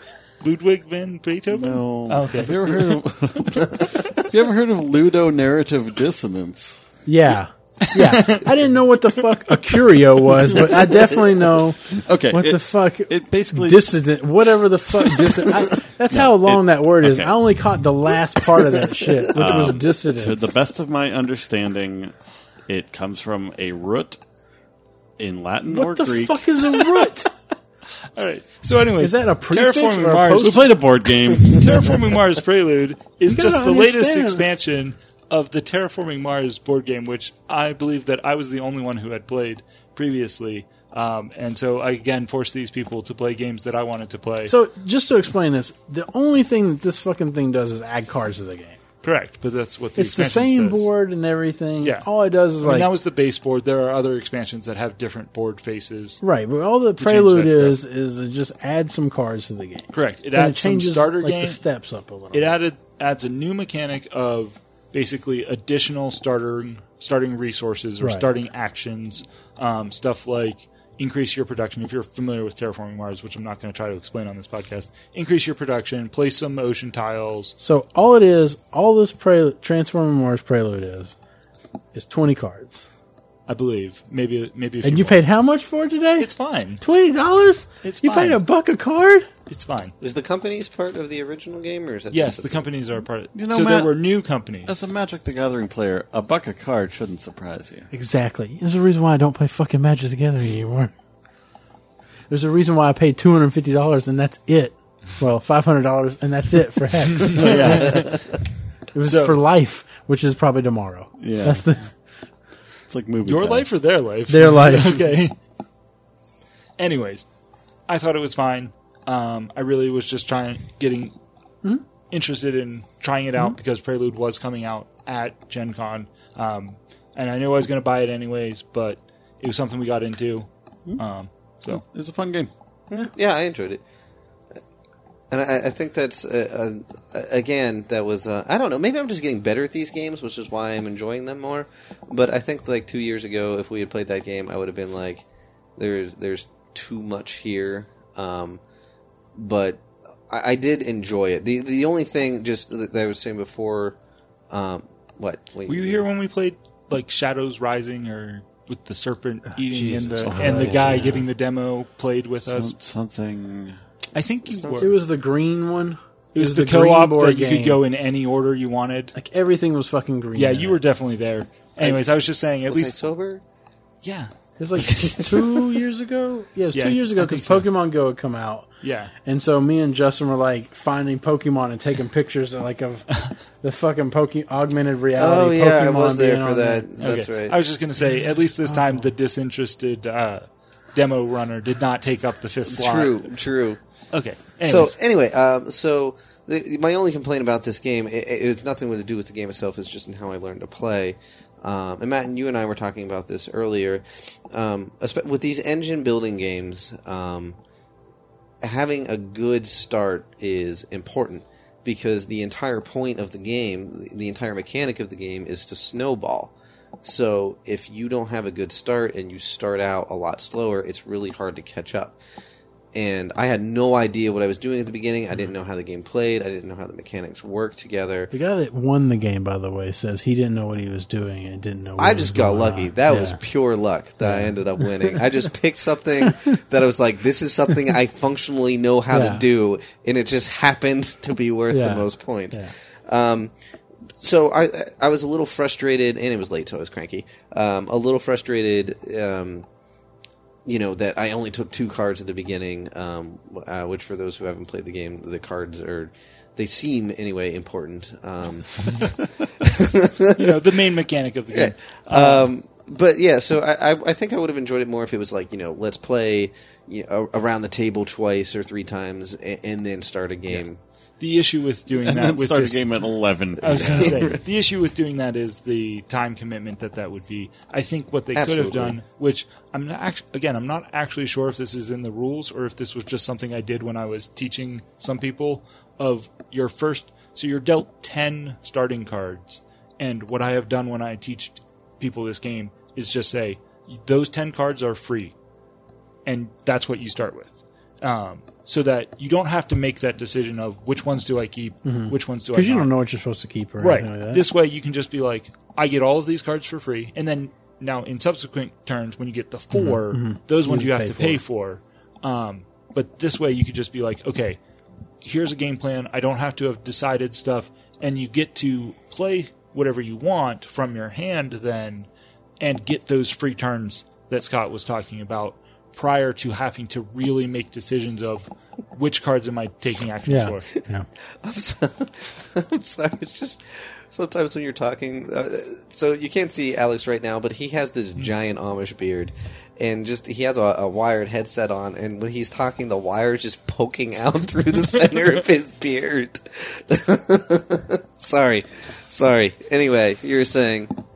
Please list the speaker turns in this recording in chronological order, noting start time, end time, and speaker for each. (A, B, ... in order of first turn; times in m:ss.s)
0:00.4-0:02.6 A
0:01.5-0:06.8 B
0:07.0-0:20.5 C
0:07.9-0:08.5 A
0:10.5-0:10.8 B
0:11.9-0:14.0 B
0:15.2-0:15.5 B
0:16.1-0:17.4 B
0:19.3-0:22.1 B
0:22.7-0:24.2 B
0:25.2-0:27.0 B
0:25.7-0:27.3 C
0:28.1-0:30.7 A
0:29.0-0:30.6 C
0:30.4-0:32.0 B
0:31.4-0:44.5 A
0:33.3-0:34.4 C
0:44.5-0:48.8 C
0:49.0-0:50.9 A
0:50.0-0:52.9 C
0:51.8-0:52.1 A
0:52.6-0:56.2 A
0:56.2-1:02.5 C
0:57.0-0:57.8 A
0:59.9-1:01.6 A
1:02.3-1:17.5 A
1:08.0-1:08.2 C
1:17.6-1:21.2 C
1:21.9-1:22.8 C
1:23.5-1:25.2 A
1:24.8-1:26.3 C
1:26.2-1:26.8 A
1:26.8-1:29.3 C
1:27.8-1:28.4 A
1:29.5-1:29.9 A
1:30.0-1:32.7 D
1:32.1-1:34.7 A
1:33.3-1:33.9 B
1:34.6-1:37.9 B
1:37.9-1:40.9 C
1:42.3-1:47.9 C
1:47.3-1:48.1 A
1:47.3-1:48.2 B
1:48.9-1:51.9 C
1:49.0-1:49.4 A
1:51.2-1:51.6 B
1:52.9-1:53.7 B
1:53.2-1:55.3 A
1:54.3-1:55.0 C
1:56.8-1:57.2 A
1:57.9-2:01.1 A
2:02.1-2:11.8 A
2:11.7-2:12.5 B
2:12.9-2:13.8 D
2:15.3-2:25.2 D
2:25.8-2:28.6 D
2:29.3-2:34.0 D
2:34.5-2:36.0 D
2:35.7-2:42.7 A
2:39.6-2:41.2 C
2:40.2-2:41.2 B
2:42.5-2:43.8 B
2:44.1-2:44.9 A
2:44.4-2:44.9 D
2:44.8-2:47.8 C
2:46.3-2:49.1 A
2:49.1-2:50.8 C
2:50.4-2:53.0 A
2:52.7-2:53.4 D
2:54.0-2:54.3 A
2:54.6-2:58.7 C
2:55.0-2:55.4 D
2:56.7-2:57.6 A
2:58.8-2:59.1 A
2:59.2-3:06.9 C
3:05.2-3:07.6 D
3:07.0-3:13.3 A
3:08.6-3:09.1 C
3:12.7-3:13.8 D
3:14.1-3:15.0 A
3:14.6-3:27.6 D
3:28.6-3:42.2 D
3:42.9-3:48.3 D
3:48.3-3:53.4 C
3:52.0-4:03.5 D
3:54.2-3:55.2 C
3:59.1-3:59.4 C
4:01.7-4:02.7 C
4:04.2-4:09.6 D
4:10.6-4:20.8 D
4:20.3-4:22.5 A
4:21.5-4:30.8 D
4:31.2-4:32.8 A
4:31.9-4:34.4 B
4:33.6-4:55.3 A
4:33.6-4:34.3 D
4:38.3-4:39.0 D
4:56.2-5:02.9 A
5:01.8-5:04.4 C
5:03.8-5:14.6 A
5:09.7-5:11.4 C
5:15.2-5:22.1 A
5:22.6-5:30.7 A
5:30.3-5:31.1 C
5:31.2-5:50.9 D